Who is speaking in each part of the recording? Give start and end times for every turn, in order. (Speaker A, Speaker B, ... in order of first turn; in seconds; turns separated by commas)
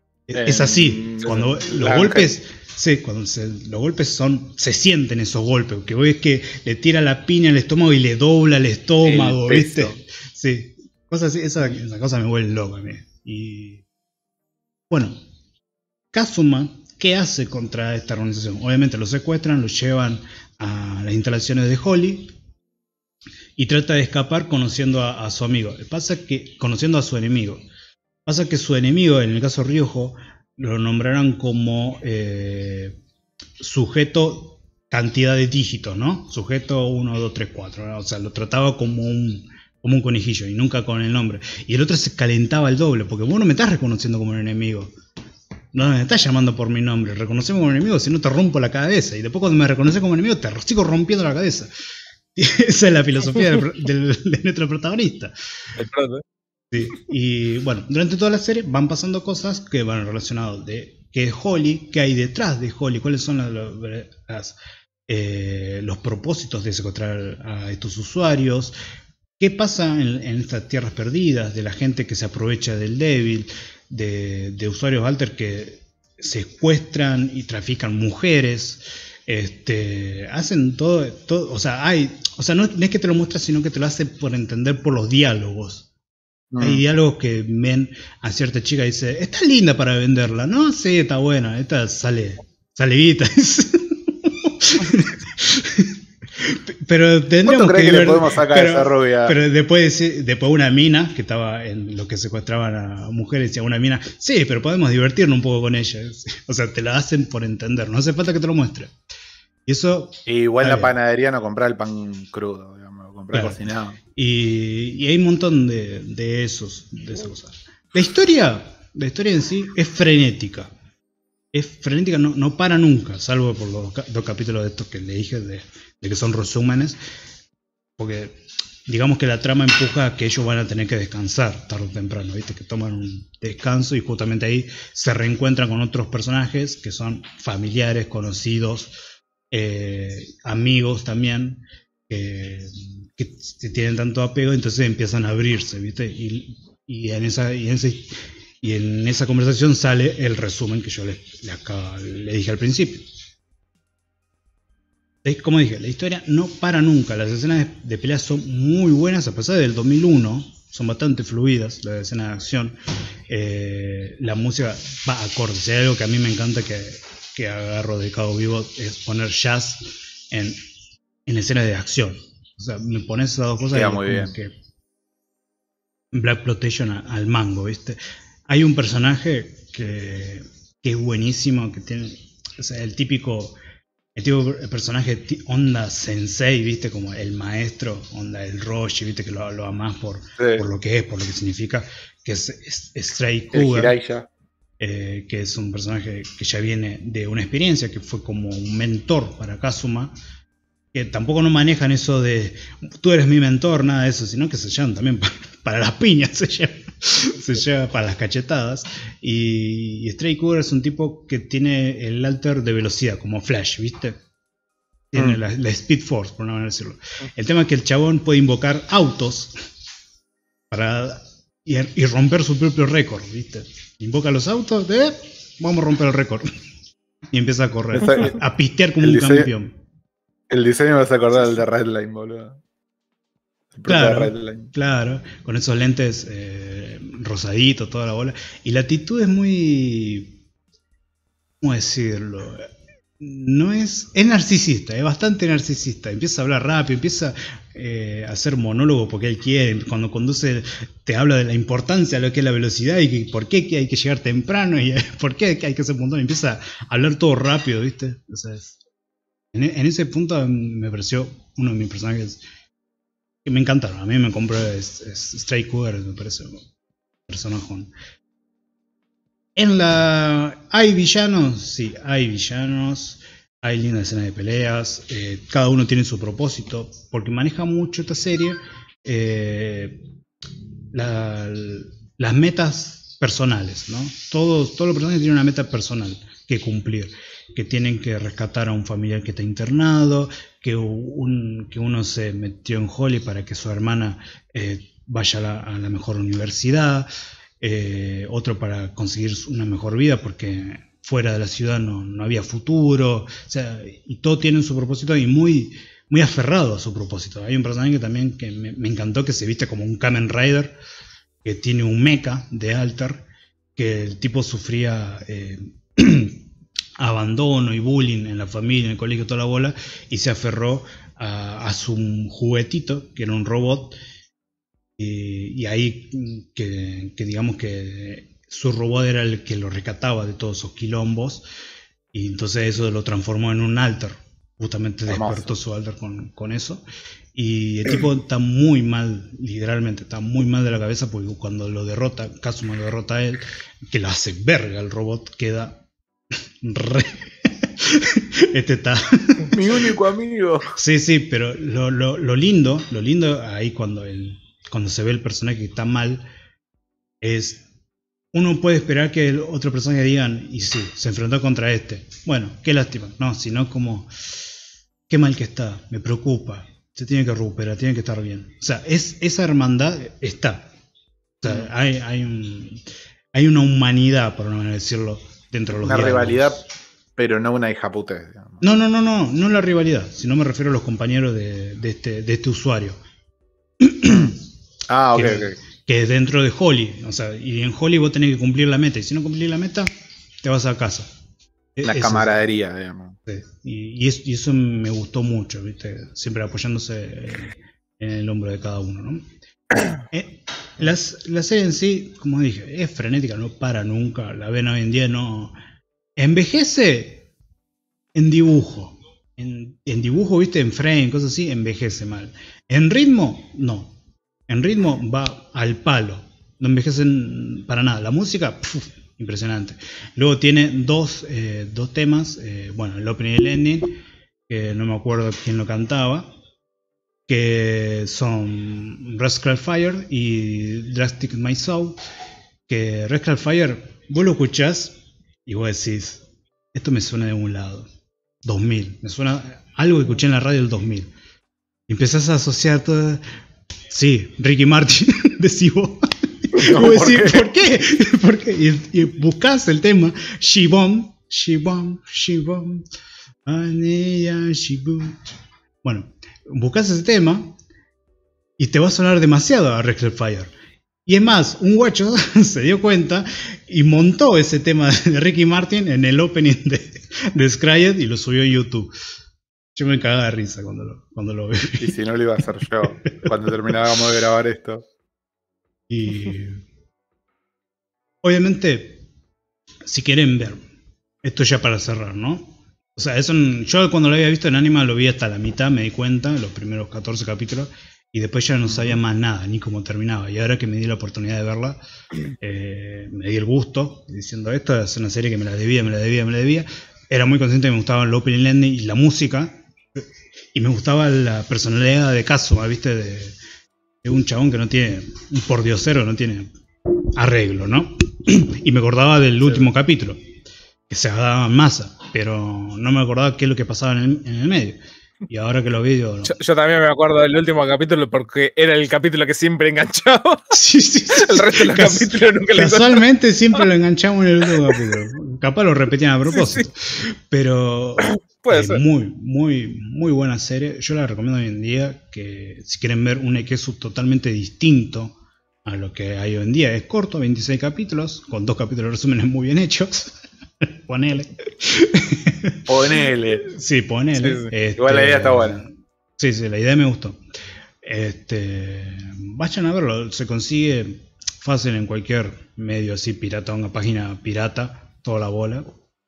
Speaker A: 0.3-13.8, Speaker B: 0.3-2.3, Speaker B: 9.0-10.0, Speaker A: 14.9-15.2, Speaker A: 16.1-22.3, Speaker A: 23.6-27.6, Speaker A: 28.2-33.0, Speaker A: 33.6-44.9, Speaker A: 45.7-51.7, Speaker A: 52.3-55.3, Speaker C: 55.8-56.2, Speaker A: 56.7-64.6, Speaker A: 65.1-68.7, Speaker A: 69.4-85.9, Speaker B: 86.5-86.8, Speaker A: 86.6-108.9, Speaker B: 97.5-99.4, Speaker A: 109.7-110.9, Speaker B: 110.2-114.0, Speaker A: 113.3-120.7, Speaker A: 121.5-127.0, Speaker A: 128.0-138.9, Speaker A: 139.5-153.1, Speaker A: 155.2-170.6, Speaker A: 171.2-174.5, Speaker B: 173.7-174.3, Speaker A: 176.1-183.6, Speaker A: 184.1-193.9, Speaker B: 190.4-190.6, Speaker B: 193.5-194.3, Speaker A: 194.8-200.1, Speaker A: 200.9-214.2, Speaker A: 215.1-219.5, Speaker A: 220.7-226.5, Speaker A: 227.3-229.8, Speaker B: 227.9-228.3, Speaker B: 229.0-229.5, Speaker B: 230.5-232.6, Speaker B: 233.7-234.7, Speaker A: 233.9-240.4, Speaker A: 241.6-258.8, Speaker A: 259.5-262.4, Speaker A: 263.4-266.7, Speaker A: 267.3-267.9, Speaker A: 269.6-280.0, Speaker A: 280.9-297.1, Speaker A: 297.6-310.8, Speaker A: 311.4-313.2, Speaker A: 313.8-316.4, Speaker A: 317.0-323.9, Speaker A: 325.0-331.4, Speaker A: 332.1-336.8, Speaker B: 335.1-335.5, Speaker A: 337.3-345.8, Speaker A: 346.6-349.6, Speaker B: 349.5-350.7, Speaker A: 350.7-356.2, Speaker A: 357.2-357.6, Speaker A: 358.3-364.4, Speaker A: 365.1-370.7, Speaker A: 371.4-376.6, Speaker B: 375.8-376.6, Speaker B: 377.2-378.6, Speaker A: 378.6-383.0, Speaker A: 383.8-384.3, Speaker B: 384.0-384.3, Speaker B: 384.9-385.6, Speaker A: 385.1-389.9, Speaker A: 390.4-391.1, Speaker A: 391.8-392.4, Speaker B: 391.8-393.2, Speaker A: 393.2-399.3, Speaker A: 399.9-405.5, Speaker A: 406.2-407.3, Speaker A: 408.1-413.9, Speaker A: 414.5-424.0, Speaker A: 424.5-426.3, Speaker A: 427.3-432.0, Speaker A: 432.7-437.9, Speaker A: 438.4-441.1, Speaker A: 441.9-443.2, Speaker A: 443.9-452.8, Speaker B: 446.6-447.5, Speaker A: 453.4-455.2, Speaker A: 455.8-457.6, Speaker A: 458.6-460.5, Speaker A: 461.1-468.9, Speaker A: 469.7-471.9, Speaker B: 471.8-474.9, Speaker A: 475.9-476.6, Speaker A: 478.2-479.0, Speaker A: 479.9-480.6, Speaker A: 481.2-491.8, Speaker B: 488.7-488.9, Speaker A: 492.4-503.4, Speaker A: 504.0-510.2, Speaker A: 510.9-516.3, Speaker C: 516.2-520.5, Speaker A: 520.5-542.7, Speaker C: 521.1-523.0, Speaker C: 526.3-526.6, Speaker C: 528.0-528.8, Speaker B: 542.7-543.4, Speaker A: 543.5-547.2, Speaker C: 544.2-544.5, Speaker B: 544.8-545.6, Speaker A: 547.8-555.7